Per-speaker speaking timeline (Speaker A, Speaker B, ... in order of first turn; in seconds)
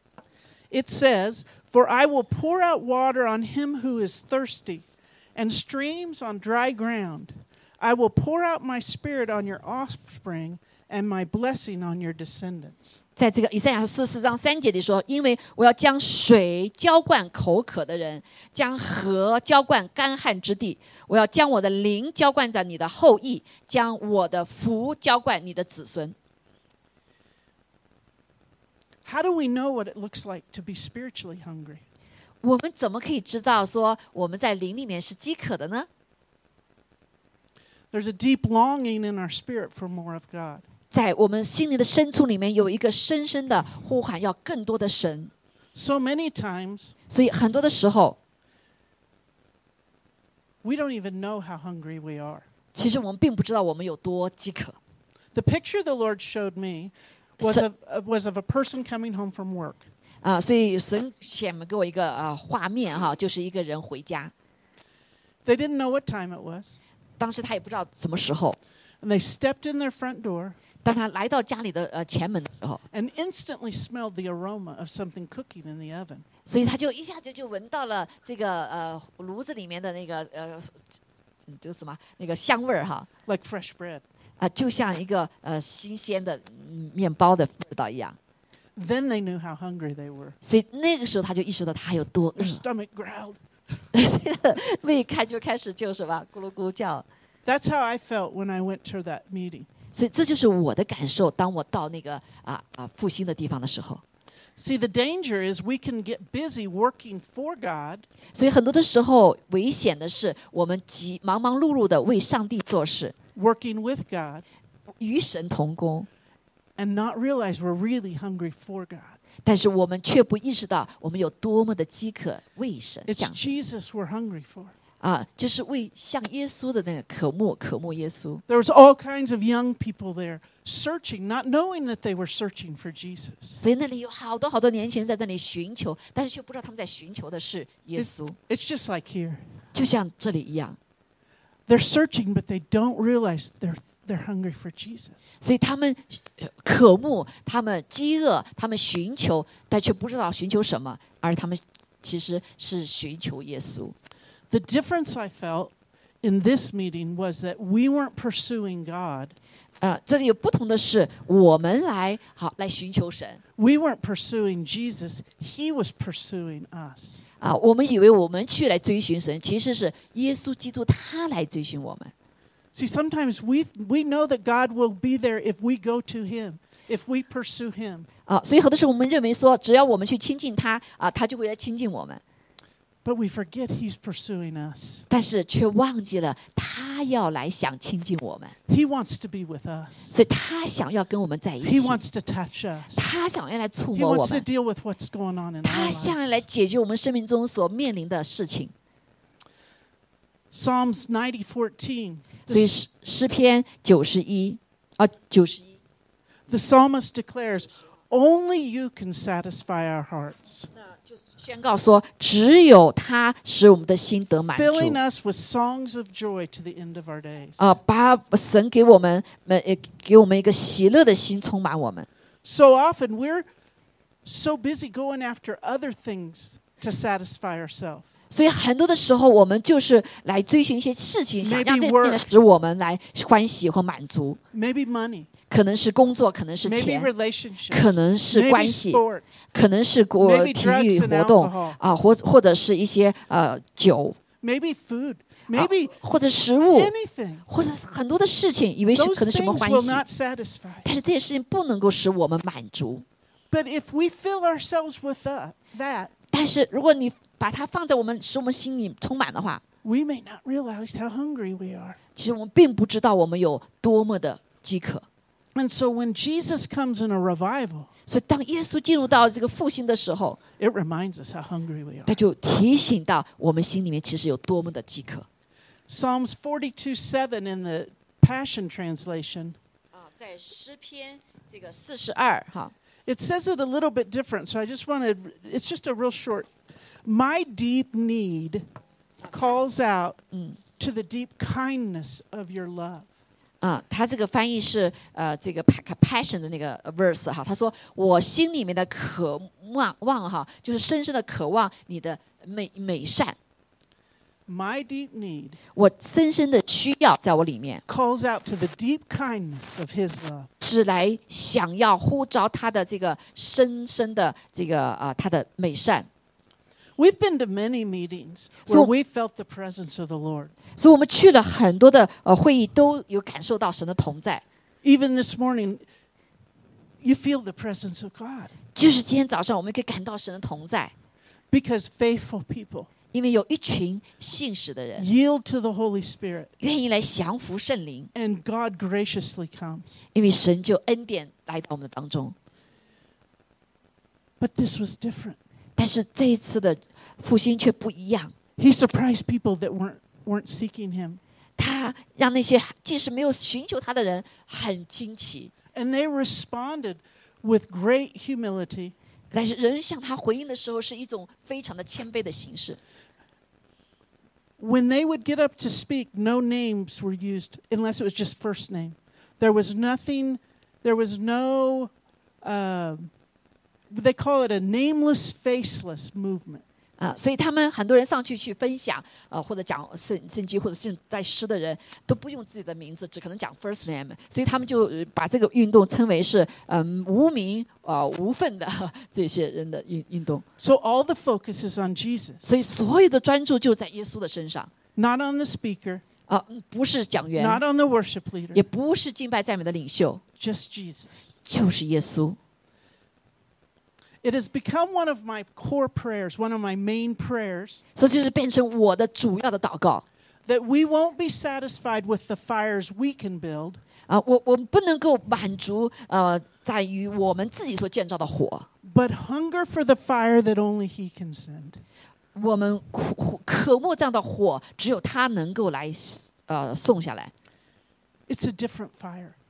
Speaker A: 0.7-13.0, 29.1-31.8, 37.9-40.6, 45.7-46.9, 50.6-52.5, 55.3-59.8, 65.5-66.8, 69.0-70.6, 72.9-76.2, 83.3-84.0, 88.8-90.4, 92.4-93.4, 97.5-99.7, 104.6-108.1, 113.3-114.4, 116.8-119.2, 123.1-124.7, 128.5-133.6, 138.0-139.4, 141.7-145.4, 154.5-159.4, 163.6-167.2, 172.7-178.1, 183.0-185.1, 188.7-190.1, 191.6-193.1, 193.9-196.4, 200.5-202.7, 206.5-210.7, 214.5-217.7, 222.4-223.5, 224.2-228.1, 231.4-232.3, 234.5-235.3, 236.6-239.5, 240.2-241.8, 244.4-246.0, 246.7-247.5, 248.9-250.9, 253.5-256.1, 259.8-262.0, 265.6-267.9, 270.6-272.2, 275.9-279.6, 283.1-286.5, 287.1-288.7, 289.3-290.2, 290.8-293.1, 304.5-305.6, 307.9-310.5, 317.0-320.5, 324.8-325.8, 327.0-328.5, 331.5-332.9, 335.0-336.5, 338.1-340.0, 344.4-345.4, 348.6-351.2, 355.7-358.9, 364.6-373.1, 373.9-376.6, 390.6-392.4, 395.0-396.0, 397.4-398.6, 400.4-401.4, 404.2-407.8, 410.5-413.8, 418.8-421.8, 428.3-429.4
Speaker B: 13.2-26.1, 32.4-35.9, 40.9-45.3, 47.1-48.2, 52.7-54.8, 57.4-57.7, 60.2-64.3, 67.2-68.6, 70.8-72.8, 76.5-80.8, 81.5-83.1, 84.4-88.2, 90.4-92.6, 93.9-97.1, 99.9-104.0, 108.3-113.1, 115.0-116.1, 119.4-123.4, 125.0-128.4, 133.6-138.4, 139.7-140.8, 145.4-153.9, 159.8-163.4, 167.4-172.1, 178.3-182.2, 185.1-188.5, 190.1-192.0, 192.9-194.4, 195.6-198.7, 202.5-205.8, 210.8-215.0, 217.6-222.1, 228.3-234.4, 235.5-237.1, 237.7-239.0, 239.5-244.2, 245.5-246.9, 247.5-250.0, 250.8-253.1, 256.3-259.6, 262.2-265.1, 268.1-270.4, 272.1-275.3, 279.9-282.7, 290.3-290.6, 293.6-303.4, 305.8-307.8, 310.6-316.1, 320.8-324.4, 328.8-330.9, 333.1-335.1, 336.6-338.1, 340.1-342.4, 345.8-348.3, 351.6-355.5, 359.3-362.8, 377.0-390.4, 392.4-394.7, 396.3-397.6, 398.5-400.2, 401.4-402.4, 407.9-410.1, 414.1-418.7, 422.4-427.3